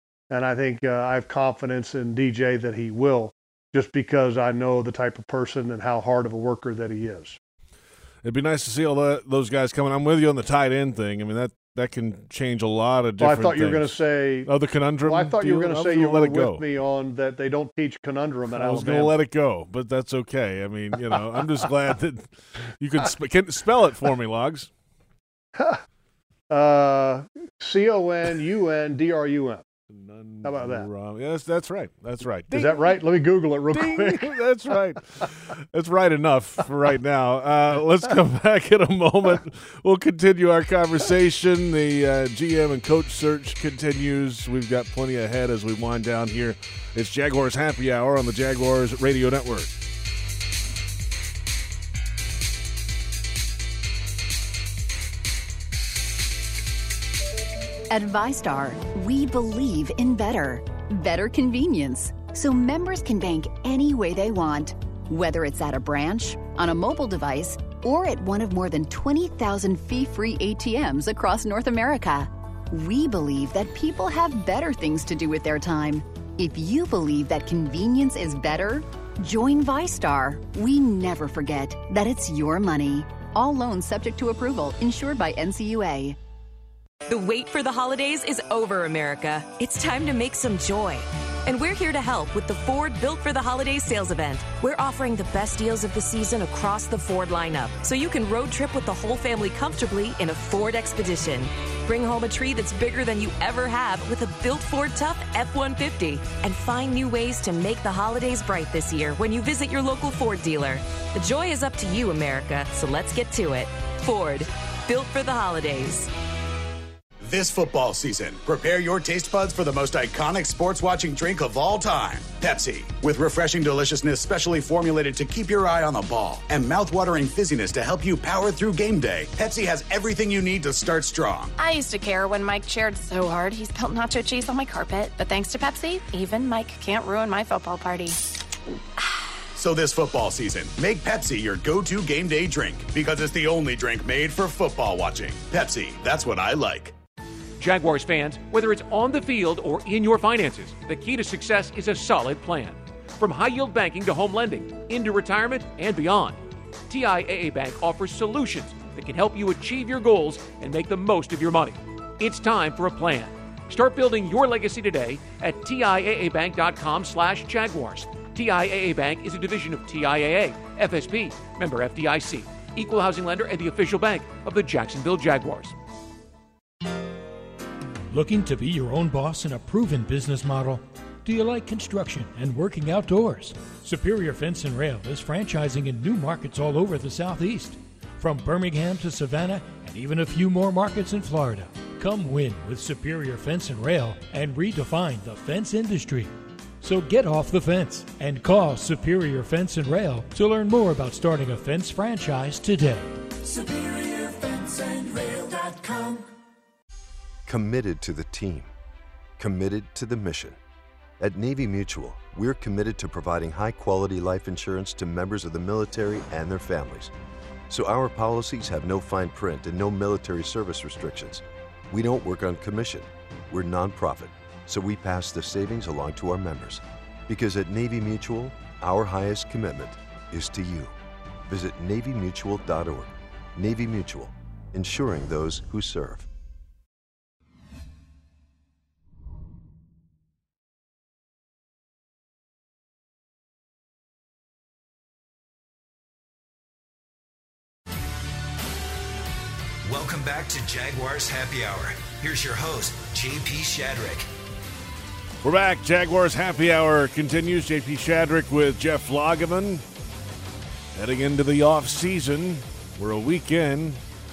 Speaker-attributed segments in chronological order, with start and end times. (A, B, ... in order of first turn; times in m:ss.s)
0:00.3-0:07.4 A
0:08.2-0:16.6 B
0:13.2-0:14.5 A
0:15.0-0:19.1 A
0:18.5-0:24.7 B
0:25.6-0:25.8 A
0:26.5-0:29.6 A
0:29.9-0:33.0 B
0:30.4-0:30.9 A
0:32.5-0:34.3 A
0:33.7-0:49.7 B
0:57.9-1:26.2 C
1:27.1-1:56.1 D
1:57.2-2:11.5 E
2:11.6-2:18.2 F
2:19.6-2:26.9 E
2:27.6-2:36.4 G
2:36.9-2:55.8 G
2:58.1-3:23.2 H
3:27.5-3:28.7 I
3:29.4-3:30.6 I
3:31.2-3:37.1 I
3:37.7-3:50.9 I
3:51.5-3:56.3 I
4:09.8-4:14.3 J
4:15.4-4:19.8 B
4:21.0-4:24.0 B